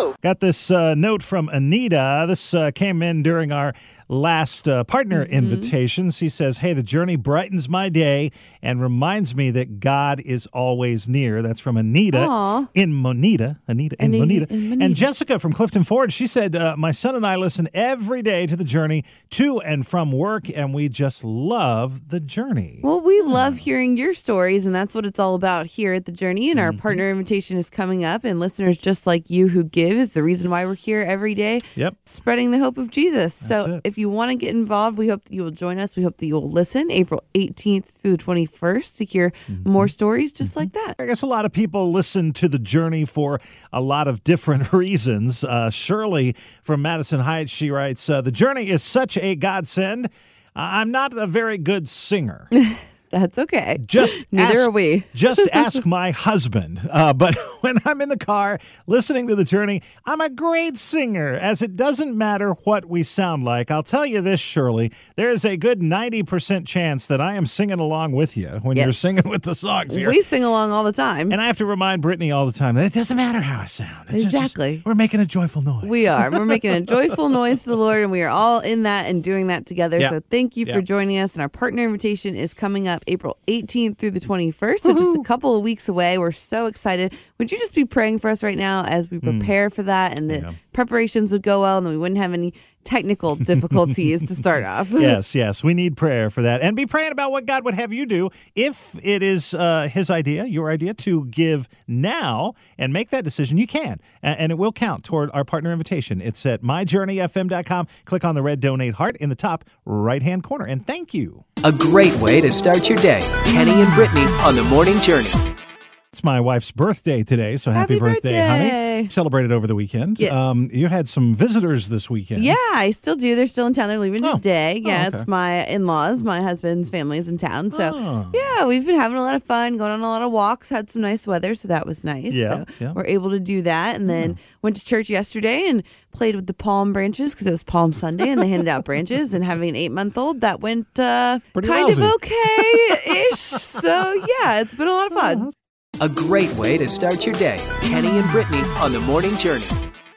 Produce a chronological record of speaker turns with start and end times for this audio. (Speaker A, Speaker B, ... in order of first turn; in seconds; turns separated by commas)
Speaker A: 0.2-23.6, Speaker B: 5.1-5.7, Speaker B: 12.1-12.7, Speaker B: 14.0-15.1, Speaker B: 22.8-41.0, Speaker A: 26.5-27.0, Speaker A: 33.4-33.8, Speaker A: 39.5-39.9, Speaker A: 40.4-52.5, Speaker B: 52.5-55.8, Speaker A: 53.8-70.2, Speaker B: 68.8-69.2, Speaker B: 69.9-71.4, Speaker A: 71.3-76.8, Speaker B: 74.1-74.8, Speaker B: 75.8-95.2, Speaker A: 80.0-80.8, Speaker A: 84.8-85.3, Speaker A: 89.2-89.5, Speaker A: 90.3-90.6, Speaker A: 95.0-111.4, Speaker C: 111.6-115.5, Speaker A: 116.1-122.6, Speaker B: 117.8-119.1, Speaker B: 120.2-120.4, Speaker B: 122.4-145.5, Speaker A: 124.2-125.3, Speaker A: 127.7-128.6, Speaker A: 132.3-133.0, Speaker A: 134.1-134.4, Speaker A: 141.6-143.6, Speaker A: 145.1-145.5, Speaker C: 146.0-149.8